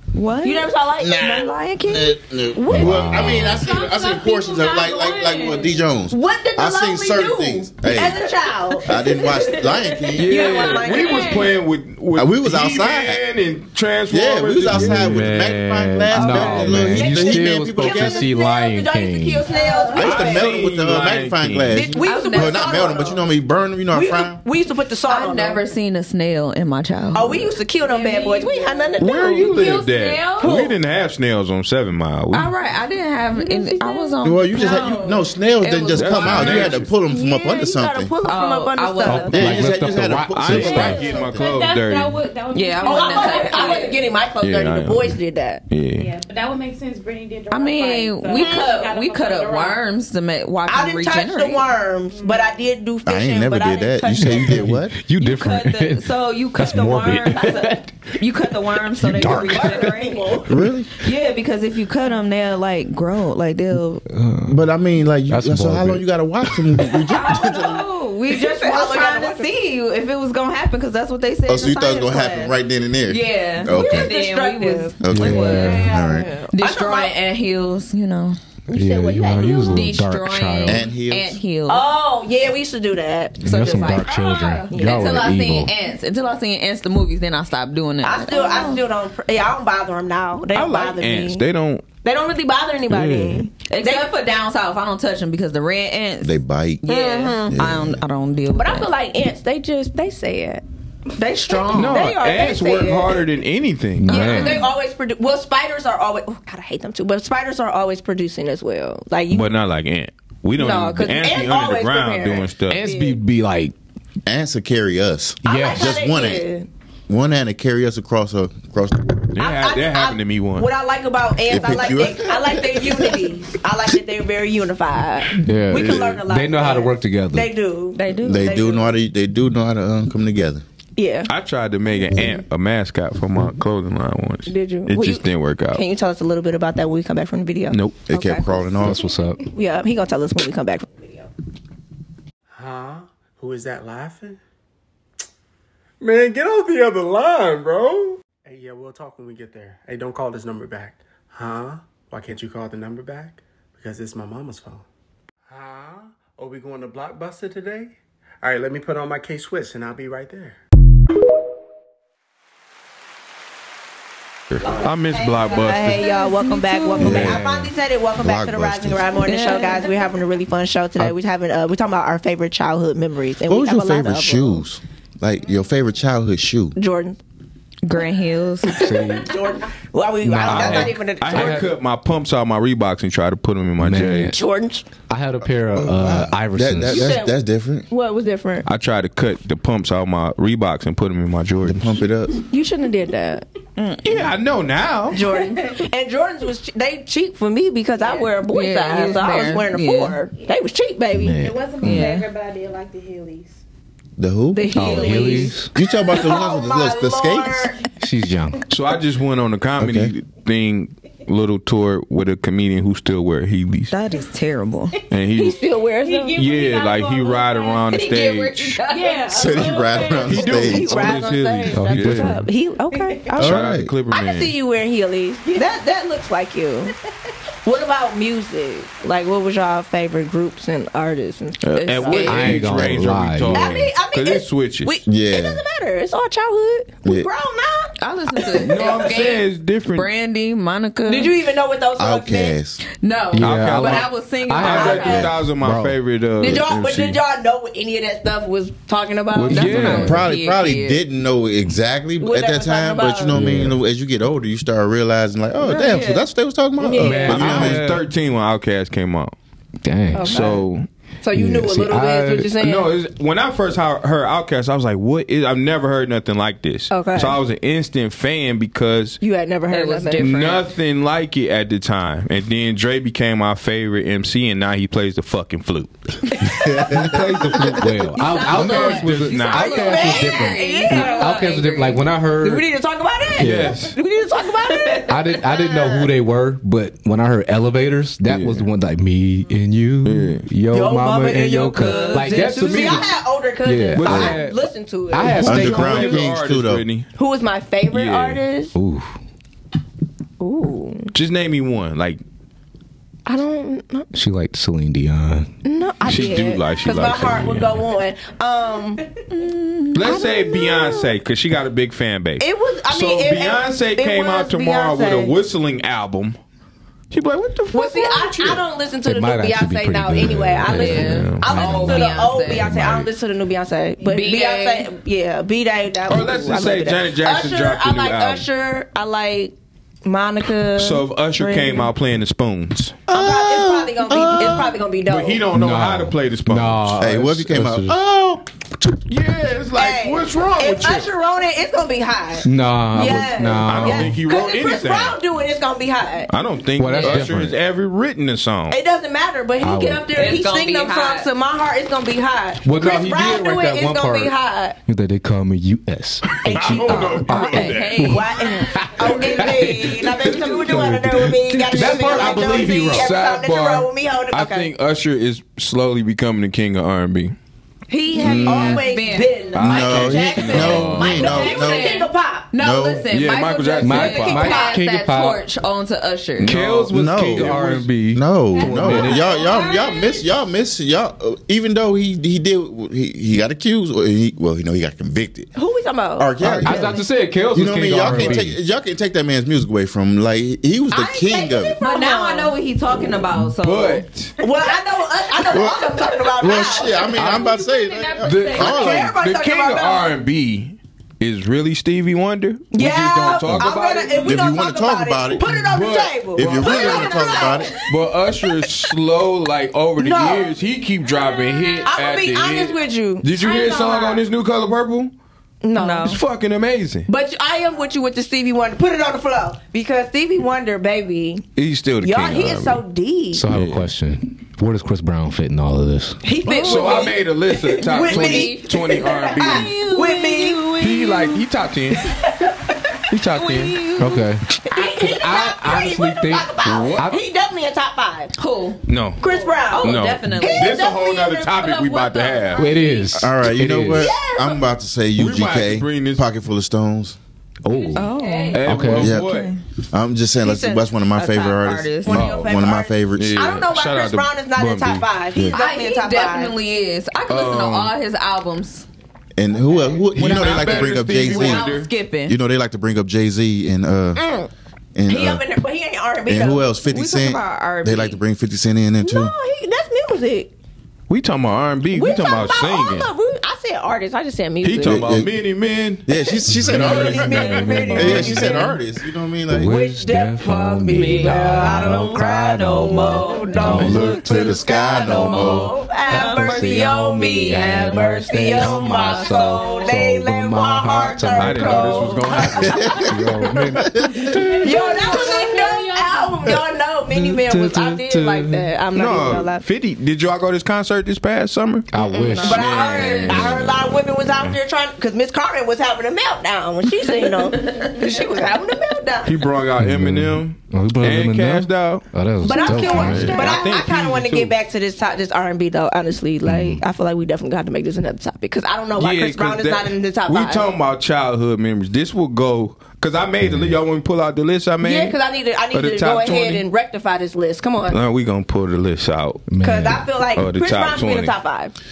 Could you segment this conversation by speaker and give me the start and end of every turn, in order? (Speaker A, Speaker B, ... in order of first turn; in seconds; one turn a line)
Speaker A: 0.1-2.2
Speaker B: 0.4-1.5
Speaker C: 1.0-8.3
Speaker B: 2.5-3.3
Speaker D: 2.7-3.7
Speaker E: 3.5-5.8
Speaker B: 6.1-11.5
Speaker C: 8.9-10.3
Speaker E: 9.0-9.6
Speaker F: 10.2-15.4
Speaker E: 10.2-11.6
Speaker C: 12.2-13.2
Speaker C: 14.1-18.3
Speaker D: 14.6-19.5
Speaker B: 16.1-20.6
Speaker E: 19.4-20.2
Speaker C: 19.9-24.4
Speaker F: 20.0-22.0
Speaker B: 21.7-23.2
Speaker A: 22.0-23.0
Speaker B: 23.9-25.7
Speaker A: 25.1-27.5
Speaker B: 27.1-29.6
Speaker E: 27.8-30.7
Speaker F: 29.0-32.5
Speaker B: 30.4-30.8
Speaker A: 32.3-36.8
Speaker E: 33.3-35.3
Speaker C: 34.2-38.1
Speaker F: 35.9-36.9
Speaker B: 36.8-39.5
Speaker A: 38.2-39.7
Speaker D: 39.0-41.0
Speaker C: 39.3-41.4
Speaker F: 40.2-42.2
Speaker E: 40.5-44.1
Speaker A: 42.5-44.0
Speaker B: 42.8-45.6
Speaker F: 44.4-45.2
Speaker F: 45.7-46.1
Speaker E: 46.0-49.8
Speaker A: 47.5-51.6
Speaker B: 48.3-48.9
Speaker B: 50.7-54.6
Speaker E: 52.1-52.5
Speaker C: 53.0-55.0
Speaker D: 54.2-58.0
Speaker A: 55.1-60.3
Speaker D: 59.0-59.9
Speaker B: 59.5-60.5
Speaker C: 60.5-61.0
Speaker A: 61.0-64.0
Speaker D: 64.1-64.6
Speaker C: 64.5-67.8
Speaker D: 65.3-66.9
Speaker A: 67.1-72.5
Speaker B: 67.2-69.5
Speaker C: 71.5-74.1
Speaker A: 73.1-76.0
Speaker B: 73.7-77.1
Speaker C: 75.0-76.3
Speaker D: 75.1-75.9
Speaker E: 75.7-76.0
Speaker A: 76.5-78.4
Speaker B: 78.7-79.9
Speaker D: 78.7-80.8
Speaker A: 79.5-81.9
Speaker C: 80.7-81.4
Speaker B: 81.7-84.1
Speaker D: 83.4-85.7
Speaker A: 83.5-84.0
Speaker E: 83.8-84.7
Speaker B: 84.7-85.3
Speaker A: 84.8-88.8
Speaker B: 88.0-91.4
Speaker F: 90.5-91.8
Speaker B: 92.0-94.1
Speaker D: 92.9-93.4
Speaker A: 93.7-98.9
Speaker C: 96.2-96.8
Speaker B: 96.9-97.6
Speaker C: 97.5-98.0
Speaker B: 98.5-100.6
Speaker B: 101.2-103.2
Speaker A: 101.5-102.0
Speaker F: 101.7-104.2
Speaker D: 104.0-104.6
Speaker B: 104.1-109.5
Speaker A: 104.1-104.6
Speaker F: 109.3-112.8
Speaker B: 110.5-113.2
Speaker D: 112.7-113.7
Speaker C: 114.2-116.5
Speaker D: 115.4-116.0
Speaker B: 115.4-116.7
Speaker C: 117.1-119.3
Speaker F: 119.3-120.7
Speaker B: 119.4-128.9
Speaker C: 121.5-123.1
Speaker D: 125.4-127.5
Speaker F: 125.8-126.0
Speaker A: 128.0-128.7
Speaker C: 128.1-130.6
Speaker B: 131.0-131.3
Speaker F: 131.3-135.8
Speaker B: 134.4-141.3
Speaker F: 137.7-138.1
Speaker C: 138.1-139.1
Speaker D: 138.8-139.4
Speaker G: 142.5-144.4
Speaker G: 146.0-154.8
Speaker G: 155.5-160.6
Speaker F: 164.5-166.1
Speaker B: 164.8-174.6
Speaker E: 165.2-167.0
Speaker A: 166.0-167.1
Speaker C: 167.0-167.4
Speaker D: 167.0-167.7
Speaker F: 167.1-167.4
Speaker C: 168.2-169.1
Speaker A: 169.2-169.9
Speaker C: 173.5-176.8
Speaker B: 176.7-177.2
Speaker A: 177.8-178.8
Speaker D: 178.7-179.3
Speaker B: 178.9-181.7
Speaker D: 180.2-181.7
Speaker F: 180.4-184.3
Speaker D: 183.8-184.3
Speaker B: 184.2-184.8
Speaker D: 185.1-187.2
Speaker C: 185.7-187.8
Speaker B: 186.8-188.7
Speaker F: 188.6-192.0
Speaker C: 191.7-192.4
Speaker B: 192.4-193.4
Speaker A: 193.8-194.0
Speaker F: 194.0-195.2
Speaker B: 195.1-201.4
Speaker E: 198.0-198.3
Speaker A: 198.5-200.2
Speaker E: 198.9-199.2
Speaker D: 201.1-202.1
Speaker E: 201.4-203.6
Speaker A: 201.8-202.3
Speaker C: 204.2-204.7
Speaker B: 204.5-207.8
Speaker D: 204.7-205.7
Speaker A: 204.8-205.4
Speaker C: 205.7-207.7
Speaker D: 208.0-208.6
Speaker F: 208.7-213.9
Speaker C: 209.8-210.1
Speaker A: 213.9-214.9
Speaker F: 215.1-215.6
Speaker B: 215.3-216.4
Speaker E: 215.9-218.1
Speaker F: 216.3-218.8
Speaker A: 217.9-219.3
Speaker E: 218.8-220.6
Speaker B: 219.3-226.9
Speaker C: 219.3-221.2
Speaker F: 220.2-222.4
Speaker D: 221.7-222.5
Speaker E: 222.9-223.4
Speaker F: 223.4-224.5
Speaker C: 223.4-223.9
Speaker B: 227.6-232.7
Speaker F: 231.6-235.0
Speaker A: 231.8-232.7
Speaker D: 232.2-233.8
Speaker B: 233.5-239.1
Speaker C: 235.1-235.6
Speaker A: 238.0-241.3
Speaker F: 238.6-240.1
Speaker B: 241.1-242.6
Speaker C: 242.0-242.8
Speaker A: 242.9-245.3
Speaker D: 243.3-246.0
Speaker F: 243.4-247.2
Speaker B: 244.7-245.3
Speaker B: 246.4-250.1
Speaker F: 249.3-250.2
Speaker D: 249.5-250.3
Speaker A: 249.5-251.0
Speaker C: 250.0-257.8
Speaker B: 252.2-253.4
Speaker D: 253.3-253.8
Speaker A: 255.6-256.2
Speaker B: 256.8-257.7
Speaker D: 256.9-258.1
Speaker A: 257.1-257.4
Speaker F: 257.3-259.3
Speaker D: 259.8-260.6
Speaker B: 260.1-260.6
Speaker F: 260.2-260.9
Speaker B: 261.2-262.9
Speaker D: 261.3-262.5
Speaker F: 262.6-269.2
Speaker B: 266.9-267.4
Speaker B: 269.2-270.4
Speaker A: 269.7-270.7
Speaker F: 270.2-280.1
Speaker D: 276.5-282.7
Speaker A: 278.1-282.0
Speaker B: 278.3-281.5
Speaker B: 282.4-286.1
Speaker F: 283.4-283.9
Speaker D: 283.4-283.8
Speaker D: 285.1-293.1
Speaker F: 288.2-288.7
Speaker F: 290.0-290.5
Speaker B: 290.7-295.8
Speaker A: 291.8-292.5
Speaker F: 292.4-293.0
Speaker D: 293.6-296.2
Speaker F: 293.9-294.4
Speaker F: 295.2-297.1
Speaker C: 295.4-296.8
Speaker B: 297.1-298.7
Speaker F: 297.9-298.4
Speaker D: 298.7-299.2
Speaker B: 300.4-301.1
Speaker F: 301.1-302.2
Speaker B: 303.2-304.1
Speaker D: 304.1-305.5
Speaker B: 305.6-309.0
Speaker F: 306.0-307.9
Speaker A: 309.3-310.2
Speaker F: 309.9-316.4
Speaker B: 310.0-311.1
Speaker B: 312.4-315.4
Speaker F: 317.1-318.6
Speaker B: 317.7-331.9
Speaker D: 319.0-323.1
Speaker A: 320.7-322.7
Speaker F: 320.8-321.9
Speaker A: 324.0-324.9
Speaker F: 326.1-328.4
Speaker F: 330.7-333.0
Speaker B: 333.1-335.4
Speaker C: 333.1-334.8
Speaker F: 335.0-337.1
Speaker D: 335.5-337.9
Speaker C: 337.0-338.9
Speaker F: 339.1-341.1
Speaker B: 339.7-346.3
Speaker D: 342.4-344.2
Speaker F: 343.6-345.2
Speaker F: 346.3-348.8
Speaker D: 346.8-347.6
Speaker A: 346.9-347.3
Speaker B: 348.7-354.8
Speaker D: 349.6-350.1
Speaker A: 350.1-351.3
Speaker D: 352.6-354.3
Speaker D: 354.9-363.2
Speaker B: 356.4-357.2
Speaker F: 356.4-358.2
Speaker A: 356.6-359.5
Speaker B: 358.0-364.7
Speaker F: 361.7-367.3
Speaker B: 367.9-372.5
Speaker C: 368.2-368.8
Speaker A: 368.2-376.5
Speaker F: 369.5-371.5
Speaker C: 369.6-371.9
Speaker E: 371.2-371.7
Speaker C: 372.6-373.1
Speaker F: 373.1-374.6
Speaker D: 373.8-375.4
Speaker B: 374.0-374.8
Speaker F: 376.4-378.2
Speaker D: 376.4-379.3
Speaker C: 376.9-377.6
Speaker C: 378.1-385.5
Speaker E: 378.5-380.3
Speaker B: 379.3-379.7
Speaker B: 385.5-387.0
Speaker C: 386.2-386.9
Speaker D: 386.4-388.6
Speaker C: 387.5-391.8
Speaker B: 390.9-392.5
Speaker A: 391.8-394.0
Speaker F: 393.5-394.3
Speaker B: 394.4-397.2
Speaker C: 395.5-399.1
Speaker E: 397.0-399.1
Speaker F: 398.3-404.4
Speaker B: 398.4-400.1
Speaker B: 402.7-407.7
Speaker C: 404.2-405.6
Speaker F: 405.7-407.2
Speaker C: 406.3-407.8
Speaker E: 406.8-407.8
Speaker F: 407.8-415.1
Speaker B: 410.0-410.5
Speaker E: 411.1-411.8
Speaker B: 411.8-414.2
Speaker E: 413.3-414.2
Speaker B: 415.6-416.2
Speaker A: 415.7-416.2
Speaker F: 416.0-417.1
Speaker B: 417.1-421.4
Speaker F: 421.6-422.8
Speaker B: 422.0-423.4
Speaker D: 423.3-426.2
Speaker F: 423.5-423.9
Speaker B: 426.2-430.9
Speaker F: 426.5-429.8
Speaker A: 426.5-427.1
Speaker A: 427.8-431.4
Speaker F: 430.8-432.0
Speaker F: 433.1-433.8
Speaker A: 433.3-434.3
Speaker D: 434.0-437.2
Speaker B: 434.6-438.3
Speaker F: 436.6-437.1
Speaker A: 438.4-438.8
Speaker F: 438.9-439.2
Speaker B: 439.2-442.9
Speaker E: 439.2-439.7
Speaker A: 439.7-440.8
Speaker F: 439.8-442.7
Speaker D: 442.6-444.2
Speaker C: 443.2-447.2
Speaker B: 443.9-444.6
Speaker F: 445.2-446.2
Speaker D: 447.6-448.1
Speaker E: 447.7-448.7
Speaker A: 447.9-449.6
Speaker B: 448.1-448.5
Speaker F: 448.5-449.5
Speaker D: 448.6-449.2
Speaker C: 449.0-449.2
Speaker C: 449.9-453.4
Speaker B: 450.4-456.5
Speaker A: 451.4-452.2
Speaker F: 452.1-452.6
Speaker F: 453.1-455.1
Speaker A: 455.4-458.9
Speaker F: 457.3-457.9
Speaker C: 459.4-464.3
Speaker F: 460.1-461.9
Speaker A: 460.4-462.4
Speaker B: 464.1-464.5
Speaker C: 464.9-465.4
Speaker B: 465.1-466.7
Speaker C: 466.3-469.3
Speaker A: 466.9-468.2
Speaker B: 469.0-470.5
Speaker F: 471.1-473.1
Speaker B: 471.9-475.1
Speaker F: 474.6-476.1
Speaker C: 474.9-475.3
Speaker C: 476.1-479.8
Speaker D: 476.5-478.7
Speaker B: 476.6-478.8
Speaker F: 476.6-478.6
Speaker D: 479.5-484.6
Speaker B: 479.6-493.6
Speaker A: 480.9-487.9
Speaker F: 483.6-484.3
Speaker C: 484.0-485.7
Speaker D: 486.1-492.3
Speaker A: 488.5-489.9
Speaker F: 491.3-493.0
Speaker C: 492.7-494.2
Speaker D: 493.0-494.7
Speaker E: 494.2-496.5
Speaker B: 494.6-499.6
Speaker D: 497.1-498.6
Speaker F: 498.9-504.5
Speaker D: 501.9-503.6
Speaker A: 502.3-503.6
Speaker B: 502.4-509.4
Speaker F: 509.2-514.5
Speaker D: 509.8-513.6
Speaker B: 512.4-520.7
Speaker D: 516.5-516.8
Speaker F: 519.0-525.2
Speaker D: 523.4-523.8
Speaker B: 524.8-528.0
Speaker F: 525.7-526.7
Speaker F: 527.9-529.4
Speaker D: 529.5-530.0
Speaker B: 529.6-531.7
Speaker F: 530.3-531.4